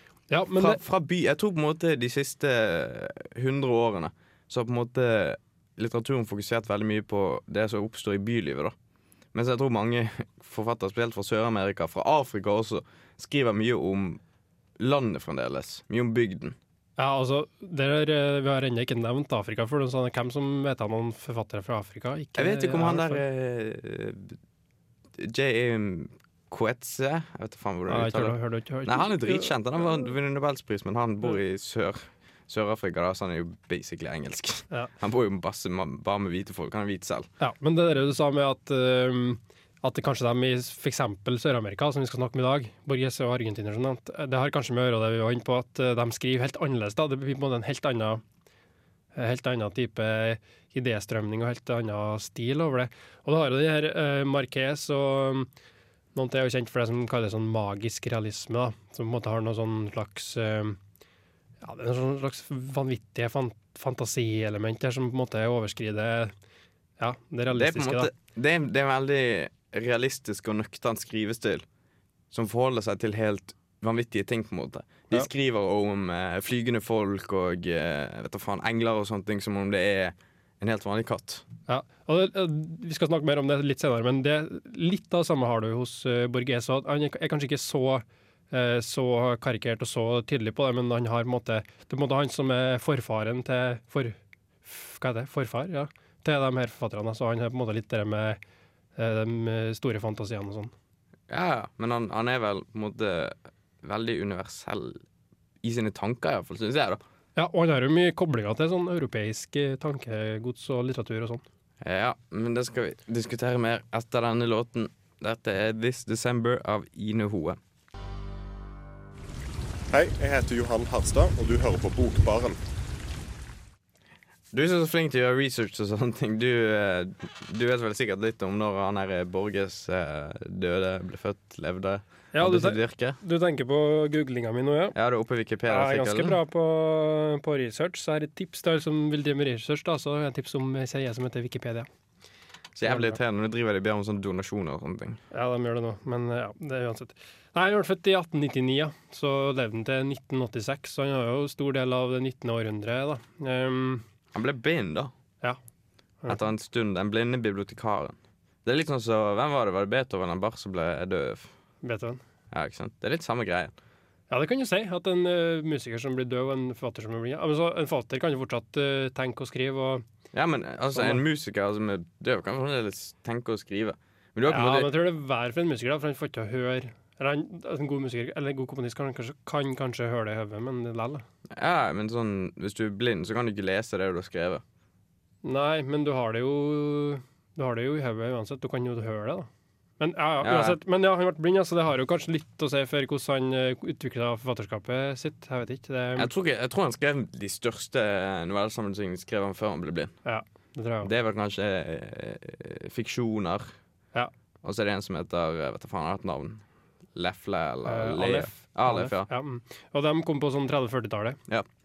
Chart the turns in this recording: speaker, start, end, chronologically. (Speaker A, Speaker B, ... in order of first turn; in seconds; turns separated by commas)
Speaker A: 0.3-0.8, Speaker B: 0.6-8.7, Speaker B: 9.3-14.2, Speaker B: 14.8-16.6, Speaker A: 17.0-23.2, Speaker B: 22.4-24.4, Speaker B: 25.1-37.3, Speaker A: 27.9-29.5, Speaker A: 37.4-48.2, Speaker A: 49.1-55.5, Speaker A: 56.1-60.8, Speaker A: 61.6-66.3, Speaker A: 67.0-68.1, Speaker B: 67.5-71.6, Speaker B: 72.3-81.5, Speaker A: 81.7-98.4, Speaker A: 99.0-100.7, Speaker B: 101.3-105.0, Speaker B: 105.6-107.0, Speaker A: 107.3-111.4, Speaker B: 111.8-117.6, Speaker C: 119.9-122.6, Speaker B: 124.5-133.2, Speaker A: 132.3-134.9, Speaker B: 134.9-136.4, Speaker A: 135.7-141.9, Speaker B: 142.7-145.2, Speaker A: 142.8-143.2, Speaker A: 145.3-154.0, Speaker B: 154.3-155.1, Speaker B: 156.3-161.5, Speaker A: 161.8-162.2, Speaker B: 162.5-163.7, Speaker A: 164.3-170.0, Speaker B: 170.3-174.9, Speaker A: 170.9-171.2, Speaker A: 174.5-181.2, Speaker B: 181.5-184.6, Speaker A: 185.4-189.5, Speaker A: 190.0-196.3, Speaker B: 190.4-190.8, Speaker B: 196.2-200.1, Speaker A: 200.2-201.1, Speaker B: 201.0-203.7, Speaker B: 204.6-206.6, Speaker B: 207.1-209.3, Speaker A: 207.8-211.4